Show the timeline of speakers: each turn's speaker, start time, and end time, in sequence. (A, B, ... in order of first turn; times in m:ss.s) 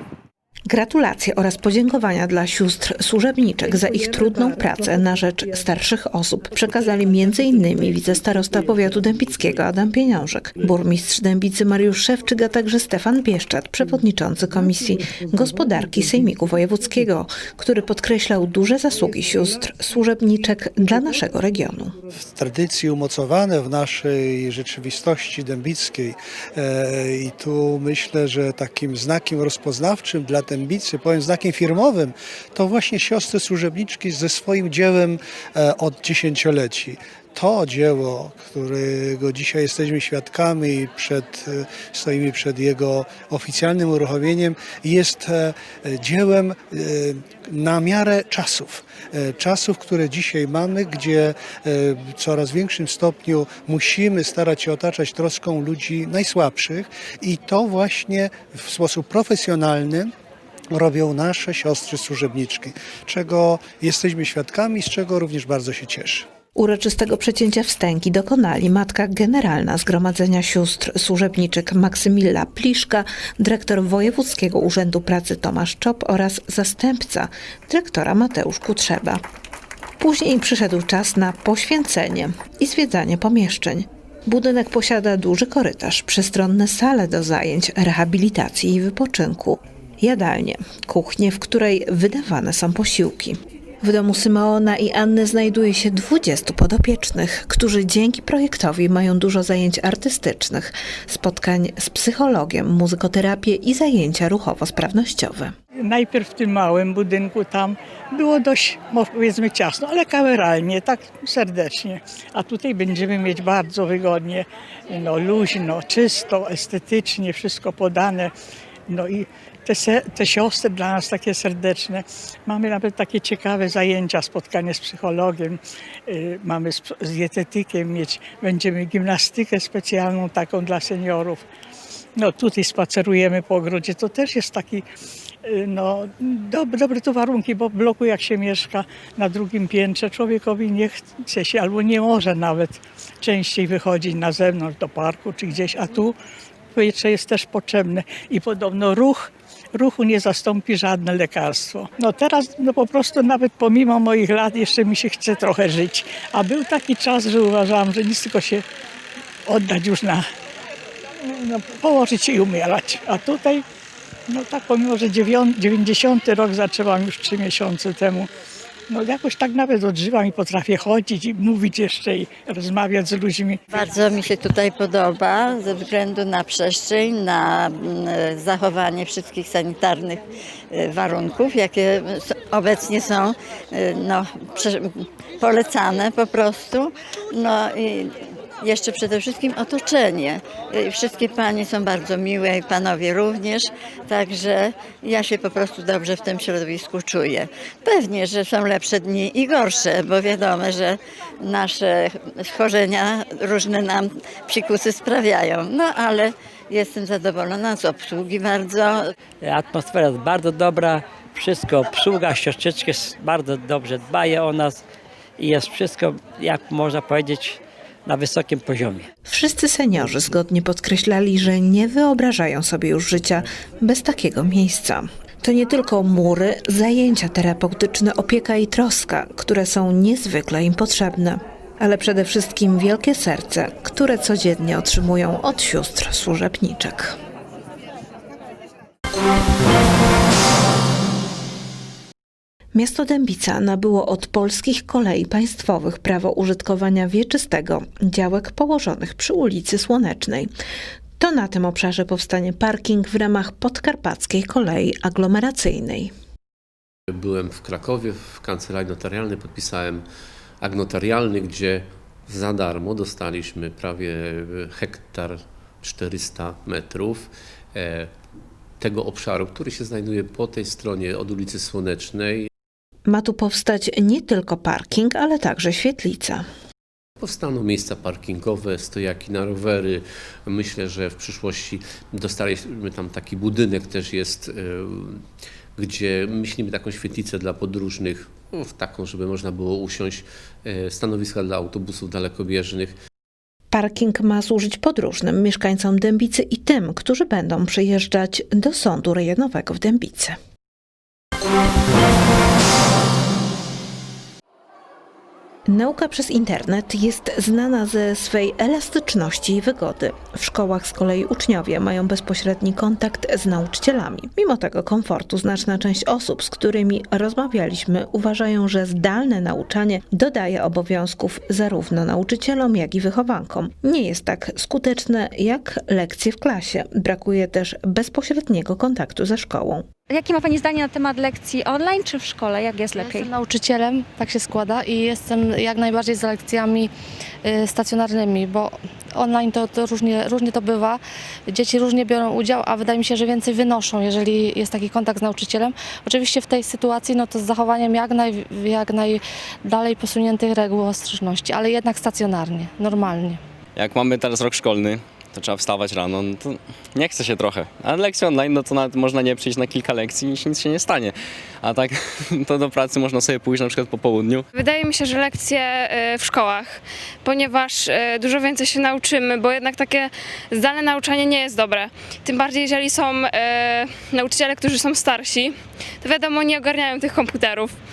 0:00.7-0:22.0 A
0:22.2-1:00.1 B
1:00.7-1:06.3 B
1:06.6-1:19.2 A
1:20.0-1:45.5 A
1:45.8-1:58.3 C
1:58.9-2:11.4 C
2:12.2-2:14.8 C
2:15.4-2:26.2 C
2:26.8-2:38.6 C
2:39.5-2:40.3 C
2:41.2-2:43.6 C
2:44.3-2:48.3 C
2:48.9-2:53.6 C
2:53.7-3:29.1 D
3:29.4-3:34.8 E
3:35.4-3:39.1 E
3:39.3-3:57.2 A
4:02.7-4:10.5 A
4:11.2-4:16.1 A
4:17.1-4:20.1 F
4:20.6-4:28.1 F
4:28.8-4:32.5 F
4:33.1-4:36.4 A
4:37.2-4:53.0 F
4:53.7-5:00.4 A
5:05.7-5:29.8 A
5:30.1-5:33.3 G
5:33.0-5:36.9 H
5:37.4-5:53.4 H
5:53.8-6:04.4 I
6:04.5-6:17.7 J